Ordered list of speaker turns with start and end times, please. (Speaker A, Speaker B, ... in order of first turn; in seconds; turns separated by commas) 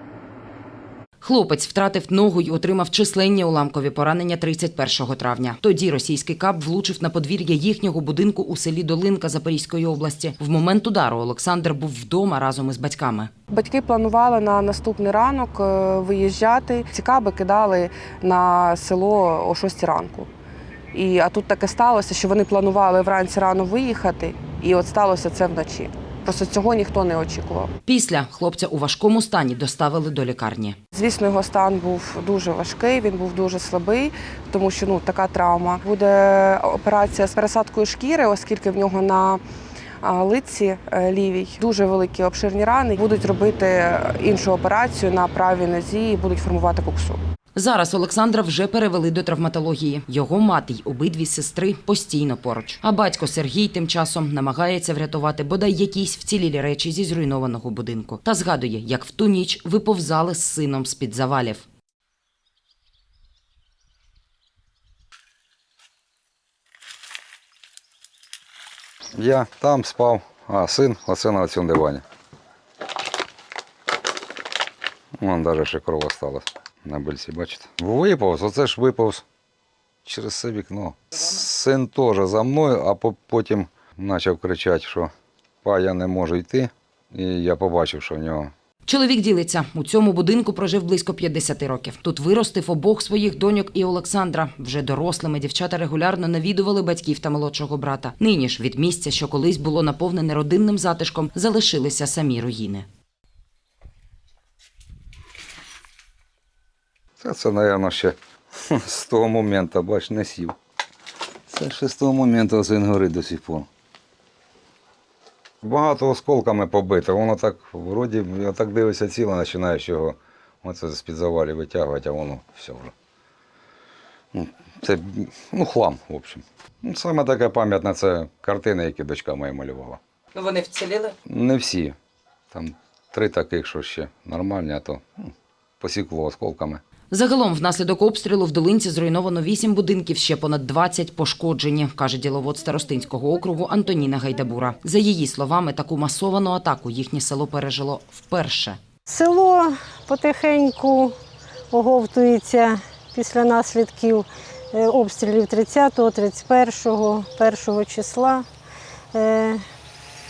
Speaker A: 1.2-13.3, Speaker B: 13.5-20.3, Speaker B: 20.9-27.7, Speaker A: 27.9-30.8, Speaker B: 30.9-39.4, Speaker B: 40.0-47.2, Speaker A: 47.5-61.6, Speaker C: 69.2-72.0, Speaker C: 75.2-79.2, Speaker C: 80.0-85.1, Speaker C: 85.6-88.5, Speaker A: 88.8-102.9, Speaker C: 107.2-110.5, Speaker C: 111.5-113.7, Speaker C: 115.6-122.9, Speaker C: 124.3-130.0, Speaker A: 130.3-131.1, Speaker C: 131.3-131.9, Speaker C: 132.5-136.8, Speaker A: 137.1-148.8, Speaker D: 149.1-151.1, Speaker D: 151.7-158.4, Speaker D: 159.1-159.6